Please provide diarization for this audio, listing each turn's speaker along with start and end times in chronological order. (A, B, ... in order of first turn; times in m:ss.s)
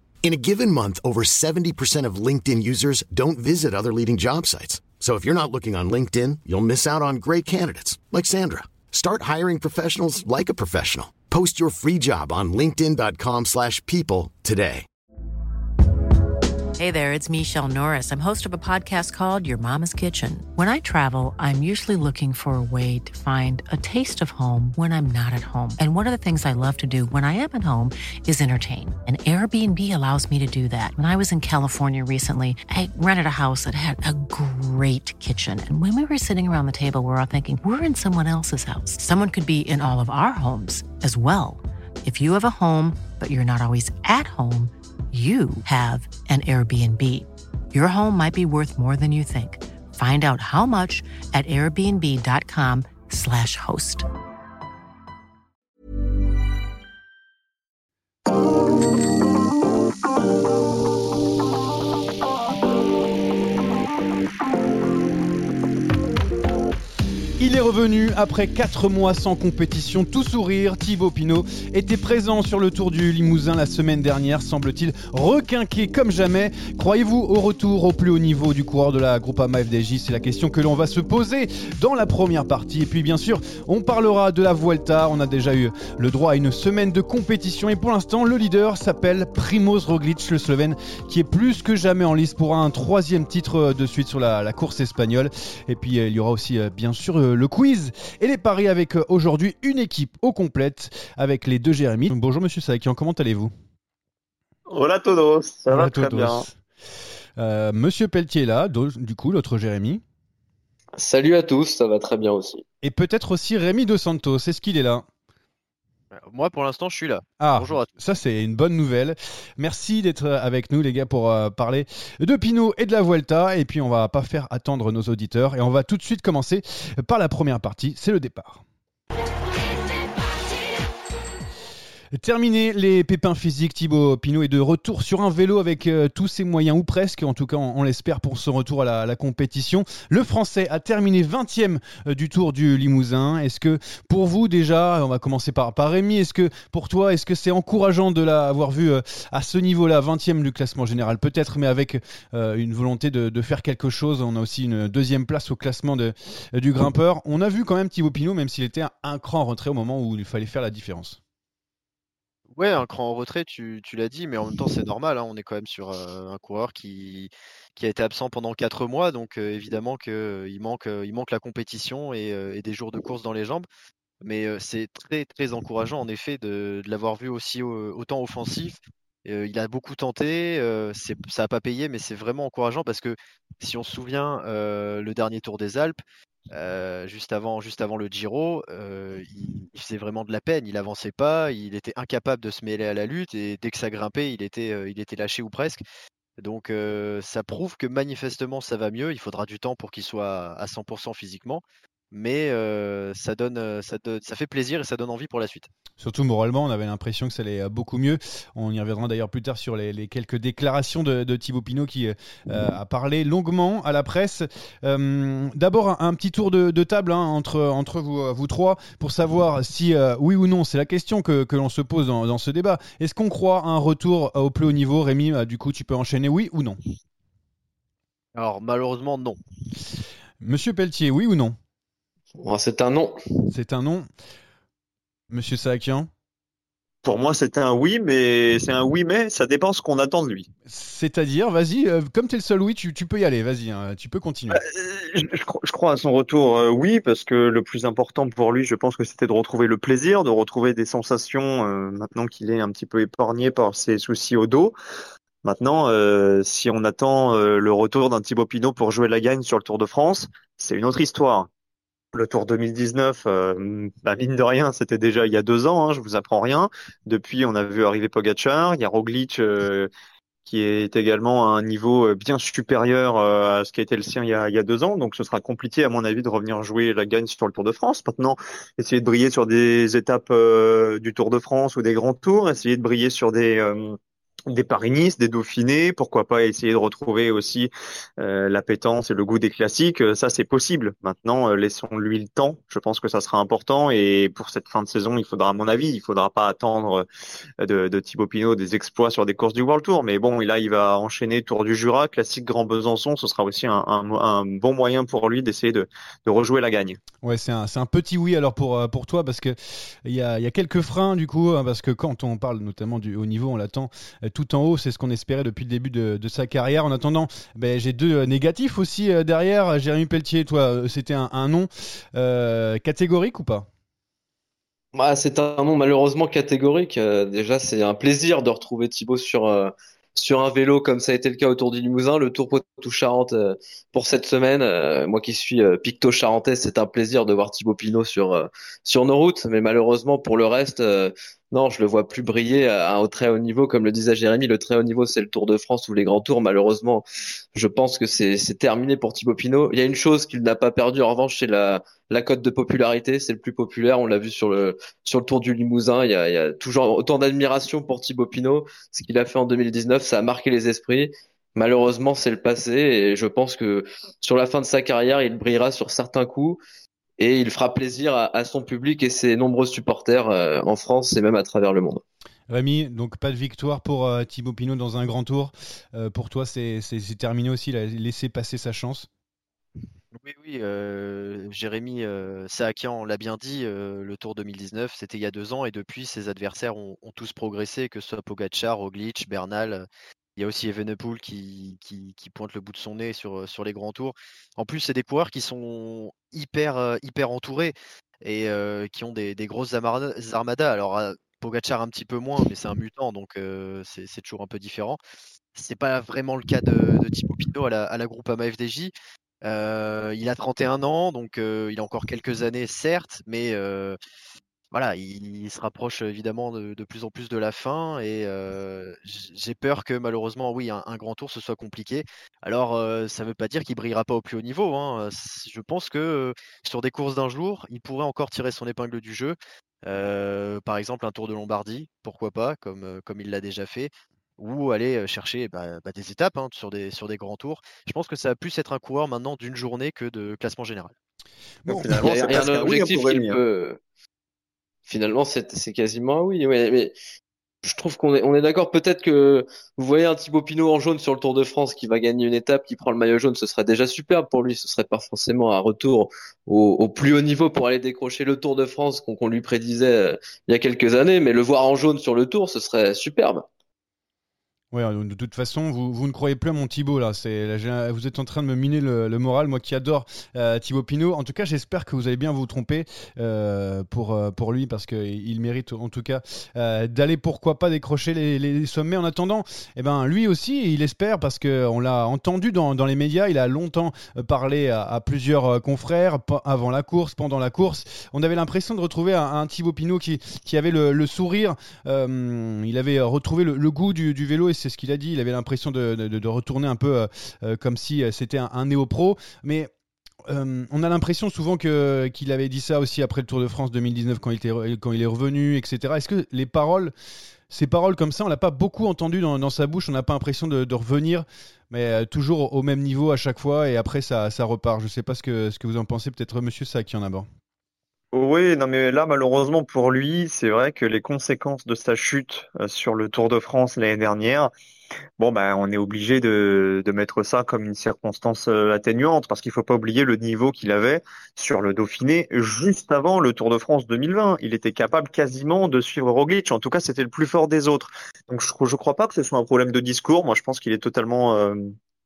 0:00.2-0:14.8 A
0:16.8-0:54.0 B
1:07.4-1:43.5 C
1:44.7-1:46.4 D
1:45.7-1:46.5 C
1:47.4-1:50.0 C
1:51.0-1:52.6 E
1:52.8-1:55.0 C
1:56.1-1:58.0 F
1:57.4-2:08.6 C
2:12.1-2:41.2 C
2:42.5-2:53.7 F
2:54.2-3:15.8 F
3:16.4-3:25.7 F
3:26.0-3:46.8 C
3:48.3-3:49.4 F
3:50.4-3:51.6 C
3:52.4-3:53.2 E
3:53.5-3:54.1 C
3:55.3-3:56.1 C
3:57.0-4:00.5 D
4:00.7-4:04.6 C
4:04.5-4:14.7 D
4:15.4-4:21.5 D
4:22.1-4:29.9 D
4:30.4-4:44.0 D
4:44.5-4:57.0 D
4:57.6-5:07.0 D
5:07.2-5:23.7 C
5:24.9-5:47.0 E
5:47.5-6:06.6 E
6:07.2-6:12.0 E
6:12.5-6:19.1 C
6:20.1-6:45.0 F
6:45.5-6:54.0 F
6:54.7-7:20.9 F
7:21.7-7:22.0 C
7:21.7-7:23.4 D
7:21.9-7:23.8 E
7:24.8-7:26.9 E
7:27.6-7:43.4 E
7:44.7-8:19.7 C
8:20.3-8:26.9 C
8:27.5-8:37.3 C
8:38.1-8:44.5 D
8:45.2-9:01.7 D